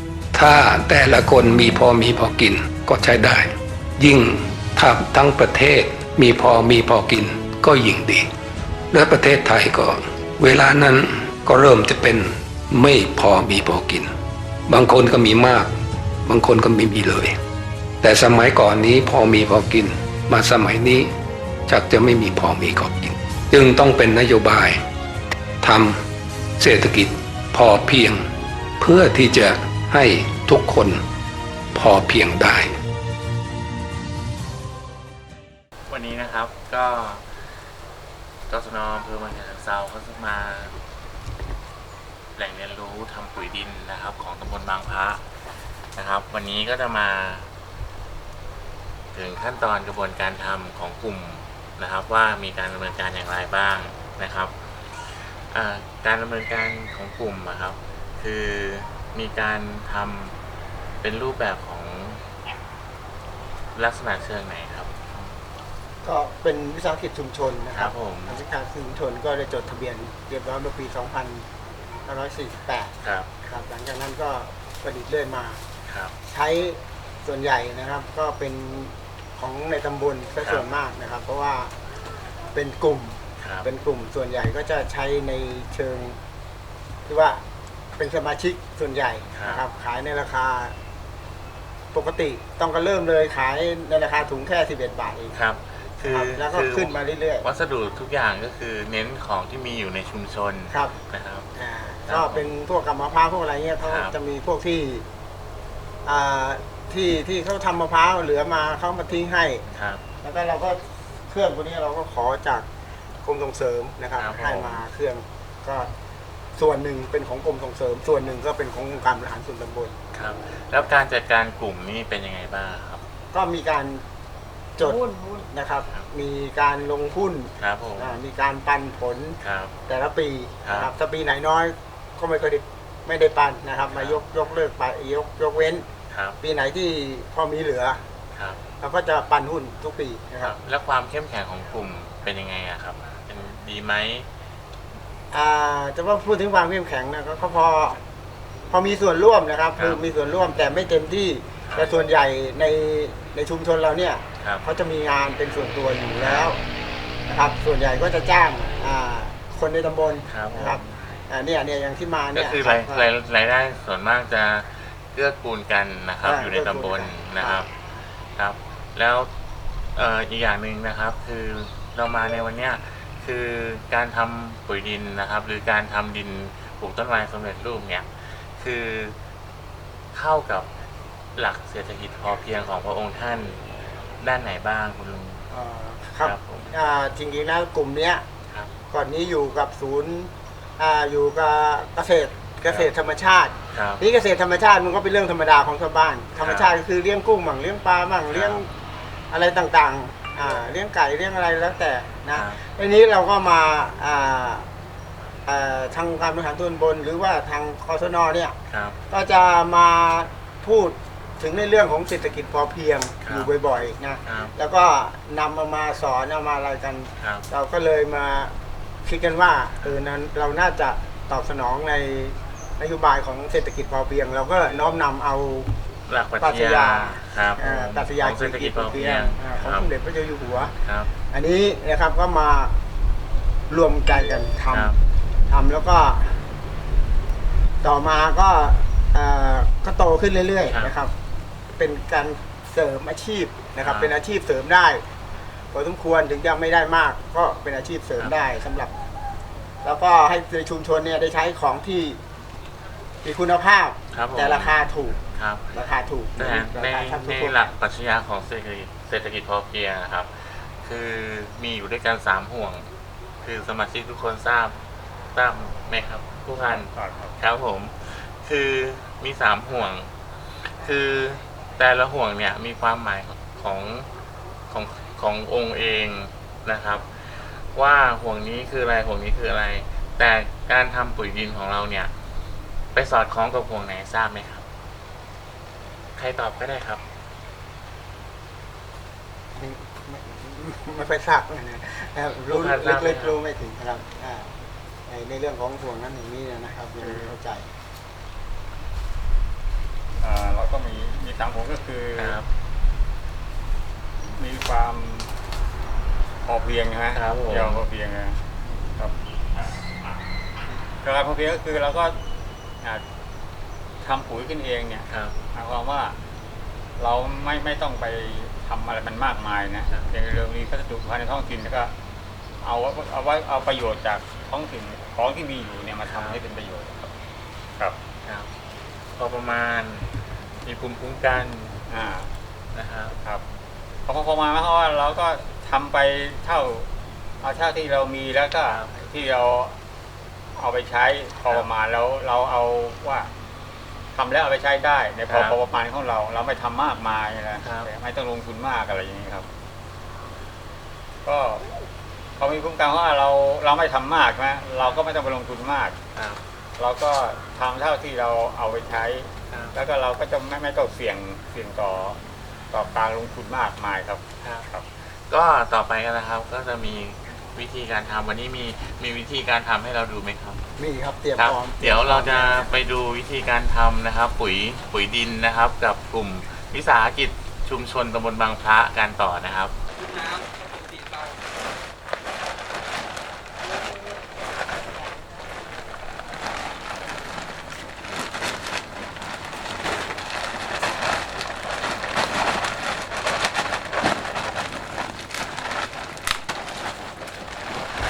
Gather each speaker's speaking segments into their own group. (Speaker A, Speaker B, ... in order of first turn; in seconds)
Speaker A: 0.3-8.2, 8.9-14.1, 14.7-15.7, 16.2-17.4, 18.0-21.1, 21.7-24.8, 25.6-26.0, 26.6-28.2, 28.8-31.0, 31.7-32.7
Speaker B: 35.9-37.5, 38.5-40.8, 42.4-45.2, 45.9-47.5, 49.1-60.3, 61.0-62.2, 63.7-65.3, 67.7-68.4, 73.0-73.3, 75.9-76.1, 83.4-83.7, 89.3-89.6, 95.3-101.5, 102.0-102.5, 103.8-104.1, 109.7-110.0, 114.2-114.8, 120.1-123.0, 127.6-128.2, 129.4-129.7, 130.6-130.9, 133.9-134.2, 136.1-136.4, 138.3-138.6, 140.4-144.3, 156.2-156.5, 160.3-160.9, 162.3-167.8, 168.3-169.3, 169.9-179.2, 180.1-180.7, 181.3-183.7, 184.2-185.5, 186.2-186.7, 193.7-194.0, 196.4-196.8, 198.3-198.6, 202.3-202.6, 208.7-209.0, 213.2-213.5, 214.2-214.5, 217.2-217.4, 226.1-229.9, 230.8-231.1, 234.7-235.0, 240.7-240.9, 243.8-244.1, 254.1-254.8, 255.3-255.7, 256.4-262.9, 263.4-264.8, 265.3-274.1, 274.7-282.1, 282.9-284.6, 286.2-287.0, 292.5-293.4, 302.2-302.5, 307.1-307.8, 315.1-315.4, 326.0-326.4, 328.2-328.5, 329.1-331.8, 332.7-333.2, 338.6-339.0, 345.3-345.6, 347.6-347.9, 356.1-356.4, 359.5-359.8, 364.4-370.6, 371.4-379.7
Speaker C: 66.0-71.5, 72.0-75.6, 76.2-81.7, 82.5-86.2, 87.0-87.4, 88.0-90.7, 91.9-95.3, 96.0-97.5, 100.7-101.0, 101.5-105.0, 106.0-109.6, 110.2-112.7, 113.2-115.9, 116.5-119.9, 123.3-124.0, 124.8-135.8, 136.4-138.0, 138.8-140.6, 145.3-148.0, 148.7-156.6, 157.3-163.1, 166.2-167.6, 185.5-188.2, 188.9-198.7, 199.3-204.7, 205.4-208.5, 209.1-225.7, 226.4-230.7, 231.3-232.7, 233.7-234.9, 235.5-236.4, 237.8-241.1, 241.7-245.0, 245.7-248.9, 249.8-252.2, 253.2-255.2, 255.7-257.7, 289.5-294.5, 295.1-297.7, 370.8-372.8
Speaker D: 266.6-267.4, 297.0-297.3, 300.2-302.4, 304.3-305.3, 306.4-308.4, 309.0-309.8, 311.0-312.2, 314.0-316.2, 317.0-321.9, 322.6-327.0, 331.9-332.3, 333.1-333.4, 334.1-336.9, 337.4-339.8, 340.6-343.3, 344.1-349.5, 351.2-351.7, 352.4-355.9, 356.8-362.2, 362.7-364.9